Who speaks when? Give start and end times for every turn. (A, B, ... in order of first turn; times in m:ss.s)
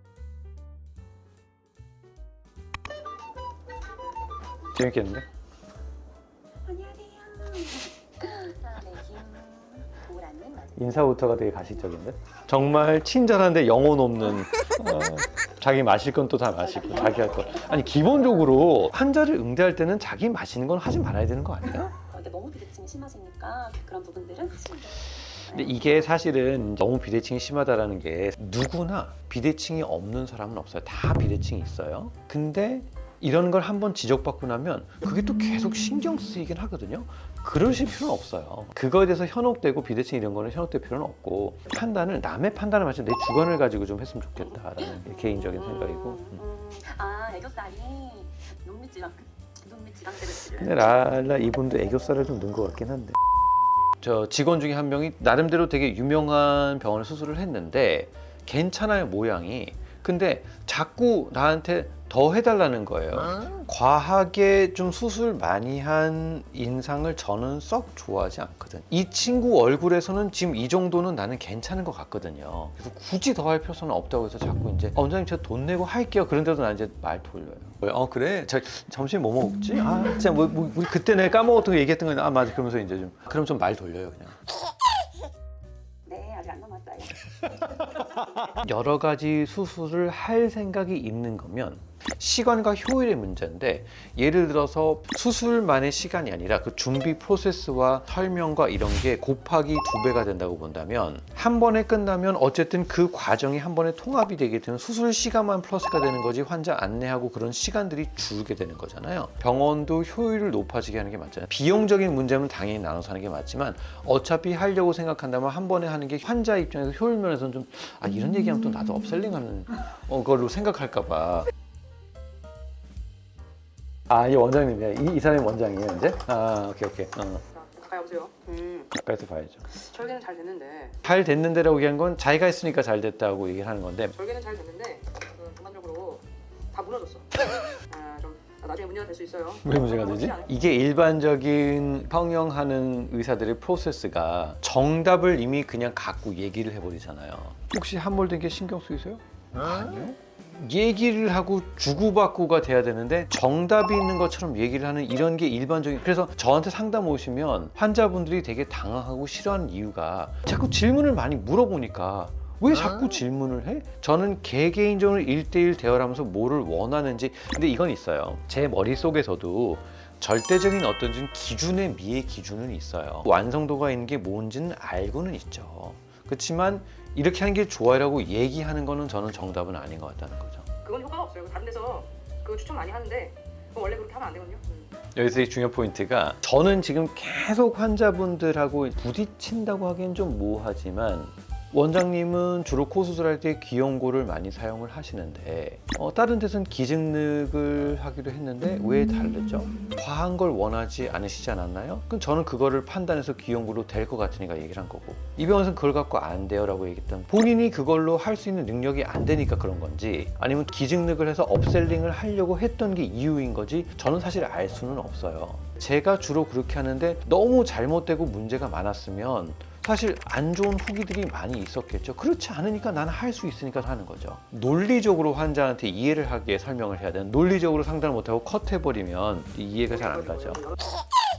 0:04.7-0:05.2 A
0:06.6-0:10.9 B
0:10.8-0:22.0 A
0:16.6-0:18.7 B
0:22.0-0:25.9 B
0:25.2-0:46.4 A
0:44.9-0:51.2 B
0:50.3-0:53.2 A
0:54.0-1:24.4 A
1:26.1-1:27.6 B
1:28.4-2:01.5 A
2:04.1-2:07.4 A
2:07.5-2:08.9 C
2:08.9-2:09.7 A
2:09.7-2:11.0 C
2:11.0-2:14.1 A
2:14.1-2:17.3 C
2:17.9-2:20.5 C
2:19.6-3:00.7 A
3:00.8-3:04.9 C
3:05.2-3:50.7 A